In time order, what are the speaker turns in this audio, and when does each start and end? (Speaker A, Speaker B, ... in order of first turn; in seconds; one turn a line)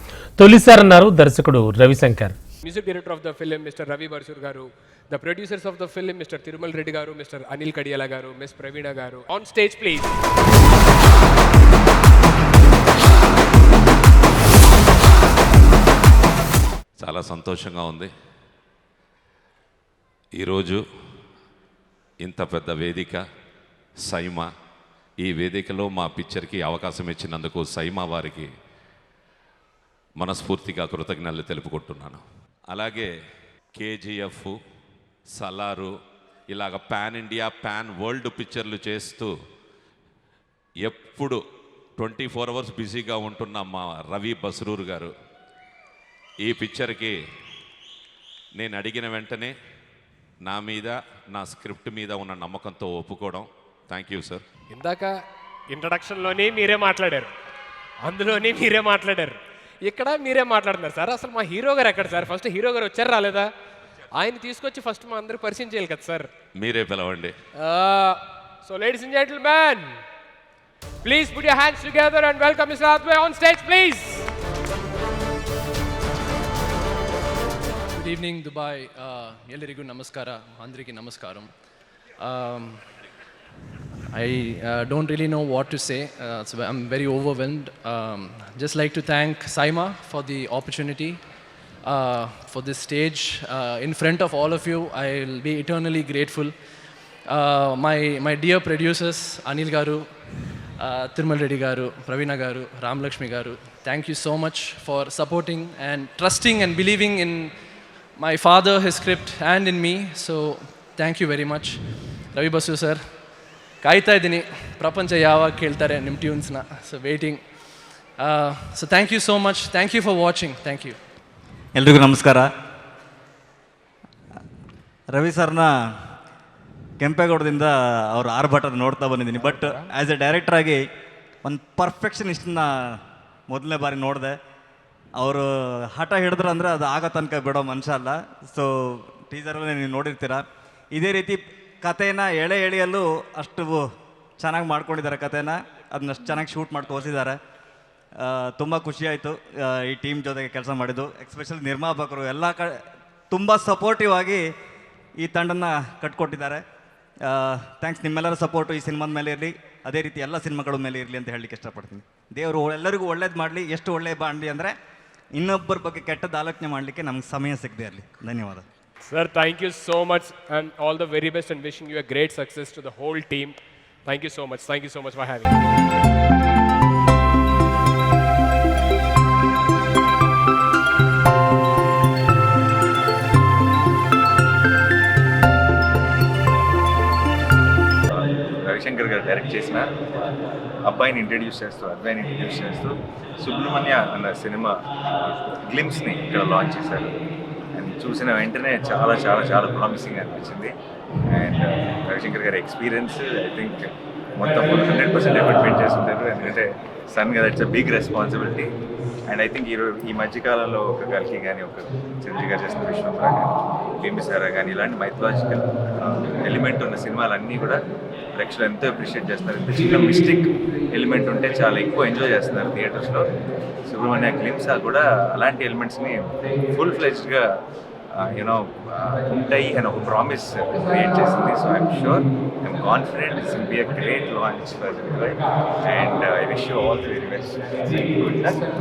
Speaker A: 0.4-2.3
Speaker B: 2.6-10.1
Speaker C: 17.0-18.1
Speaker C: 20.4-20.8
Speaker C: 22.2-23.2
Speaker C: 24.1-24.5
Speaker C: 25.2-28.5
Speaker C: 30.2-33.1
Speaker C: 33.7-34.5
Speaker C: 35.4-35.9
Speaker C: 36.5-39.3
Speaker C: 40.8-41.4
Speaker C: 42.0-45.1
Speaker C: 46.4-47.1
Speaker C: 48.5-49.5
Speaker C: 50.4-54.4
Speaker B: 54.7-55.2
Speaker B: 55.7-57.3
Speaker B: 58.0-63.5
Speaker B: 64.1-66.3
Speaker C: 66.5-67.3
Speaker B: 67.5-70.0
Speaker B: 71.0-74.3
Speaker D: 77.9-81.5
Speaker D: 82.2-82.8
Speaker D: 84.1-91.2
Speaker D: 91.8-96.5
Speaker D: 97.3-100.1
Speaker D: 100.8-107.5
Speaker D: 108.2-113.0
Speaker D: 113.8-117.4
Speaker D: 118.2-121.0
Speaker E: 121.7-122.5
Speaker E: 125.1-125.7
Speaker E: 127.0-130.8
Speaker E: 131.4-134.3
Speaker E: 135.2-140.4
Speaker E: 140.9-143.8
Speaker E: 144.4-147.4
Speaker E: 148.2-152.8
Speaker E: 153.3-154.4
Speaker E: 155.2-156.6
Speaker E: 157.2-164.7
Speaker E: 165.3-168.6
Speaker B: 169.0-175.4
Speaker F: 188.1-189.9
Speaker F: 190.8-197.2
Speaker F: 197.7-200.7
Speaker F: 201.2-208.7
Speaker F: 209.3-217.8
Speaker F: 218.3-223.3
Speaker F: 223.8-227.5
Speaker F: 228.1-238.6